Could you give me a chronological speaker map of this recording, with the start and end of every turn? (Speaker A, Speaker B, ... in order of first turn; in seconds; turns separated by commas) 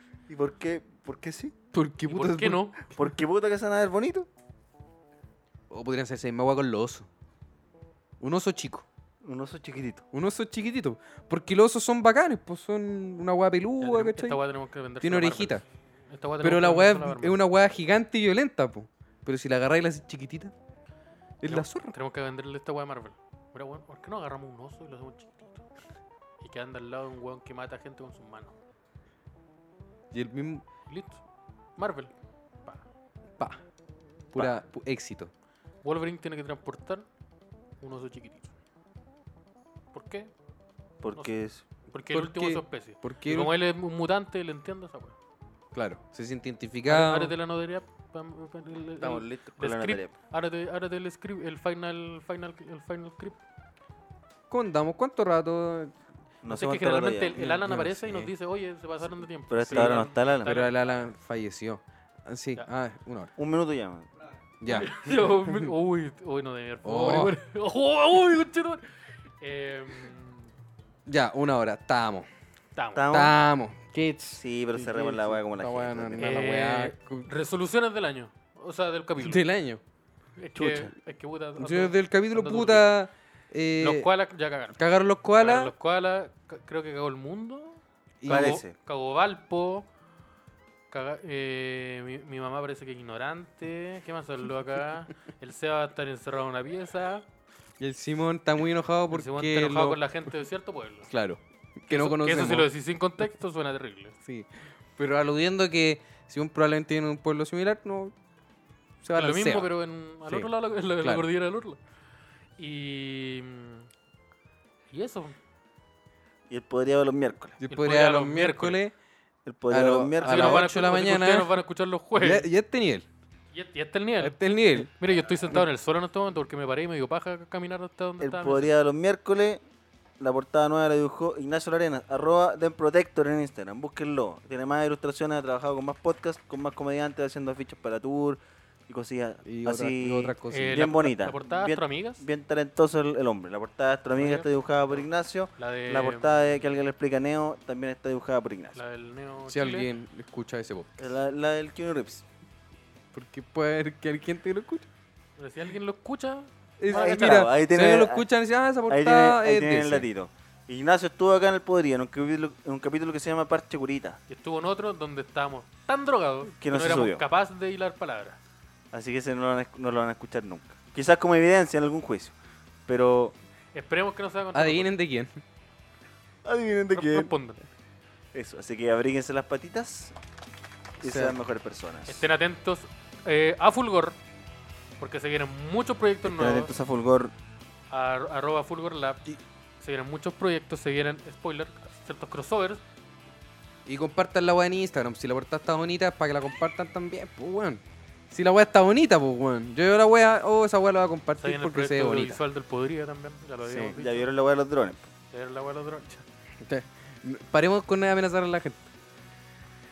Speaker A: 0.3-1.5, Speaker B: 1.7-3.0, Speaker C: 2.1-2.8, Speaker A: 3.0-4.3, Speaker B: 5.7-7.1, Speaker B: 8.2-8.8, Speaker A: 9.2-10.0, Speaker B: 10.1-14.4, Speaker C: 13.8-17.4, Speaker B: 15.0-15.6, Speaker B: 16.4-20.5, Speaker B: 21.4-21.9, Speaker C: 21.4-25.6, Speaker C: 26.4-28.6, Speaker B: 30.1-30.6, Speaker C: 30.9-31.2, Speaker C: 31.8-32.1, Speaker B: 34.3-35.3, Speaker C: 35.8-37.0, Speaker C: 37.8-38.5, Speaker C: 39.9-40.3, Speaker A: 41.0-41.6, Speaker C: 41.9-45.1, Speaker B: 42.1-43.5, Speaker B: 45.7-47.3, Speaker C: 46.9-53.4, Speaker A: 49.0-50.1, Speaker B: 54.5-55.9, Speaker A: 56.4-57.6, Speaker C: 56.5-60.9, Speaker B: 57.4-58.3, Speaker A: 59.5-60.6, Speaker B: 59.7-63.3, Speaker A: 63.4-64.1, Speaker B: 64.6-65.7, Speaker C: 64.7-70.5, Speaker B: 66.8-67.3, Speaker B: 71.1-72.3, Speaker C: 72.8-73.1, Speaker A: 73.0-73.3, Speaker B: 73.1-77.3, Speaker A: 74.4-76.4, Speaker C: 76.2-79.4, Speaker B: 79.2-79.8, Speaker C: 80.4-82.9, Speaker A: 80.5-80.9, Speaker B: 81.6-84.1, Speaker C: 83.8-84.8, Speaker B: 84.8-85.7, Speaker C: 85.4-89.9, Speaker B: 88.2-88.6, Speaker A: 88.2-88.7, Speaker C: 90.9-97.2, Speaker B: 97.8-100.0, Speaker C: 99.1-101.1, Speaker B: 101.1-102.7, Speaker C: 101.9-104.1, Speaker B: 104.2-108.1, Speaker B: 109.0-109.7, Speaker C: 109.1-111.8, Speaker C: 112.6-113.9, Speaker C: 114.9-115.4, Speaker A: 116.5-117.6, Speaker B: 117.6-118.9, Speaker C: 117.7-118.8, Speaker A: 119.5-120.7, Speaker B: 119.7-121.5, Speaker C: 120.2-122.5, Speaker B: 122.2-123.0, Speaker C: 123.5-128.7, Speaker B: 124.2-124.9, Speaker A: 128.2-129.6, Speaker A: 130.2-148.8, Speaker B: 139.4-141.1, Speaker C: 140.5-142.2, Speaker C: 144.2-146.6, Speaker C: 148.7-149.9, Speaker B: 149.5-151.1, Speaker A: 151.0-152.2, Speaker B: 153.1-154.9, Speaker C: 155.4-157.4, Speaker B: 156.8-160.0, Speaker A: 156.9-158.2, Speaker A: 158.9-164.2, Speaker C: 164.3-168.4, Speaker A: 166.6-167.2, Speaker A: 168.9-172.3, Speaker A: 172.9-173.4, Speaker C: 173.7-174.9, Speaker B: 174.5-175.4, Speaker A: 176.4-177.3, Speaker C: 176.9-177.6, Speaker A: 178.3-180.2, Speaker A: 181.0-182.3, Speaker B: 181.0-181.3, Speaker C: 182.1-184.2, Speaker C: 185.0-186.7, Speaker A: 186.2-187.3, Speaker C: 187.9-189.2, Speaker C: 189.8-192.8, Speaker B: 193.8-202.4, Speaker C: 201.4-204.3, Speaker B: 203.6-203.9, Speaker A: 203.9-205.1, Speaker C: 205.3-206.2, Speaker B: 206.6-208.8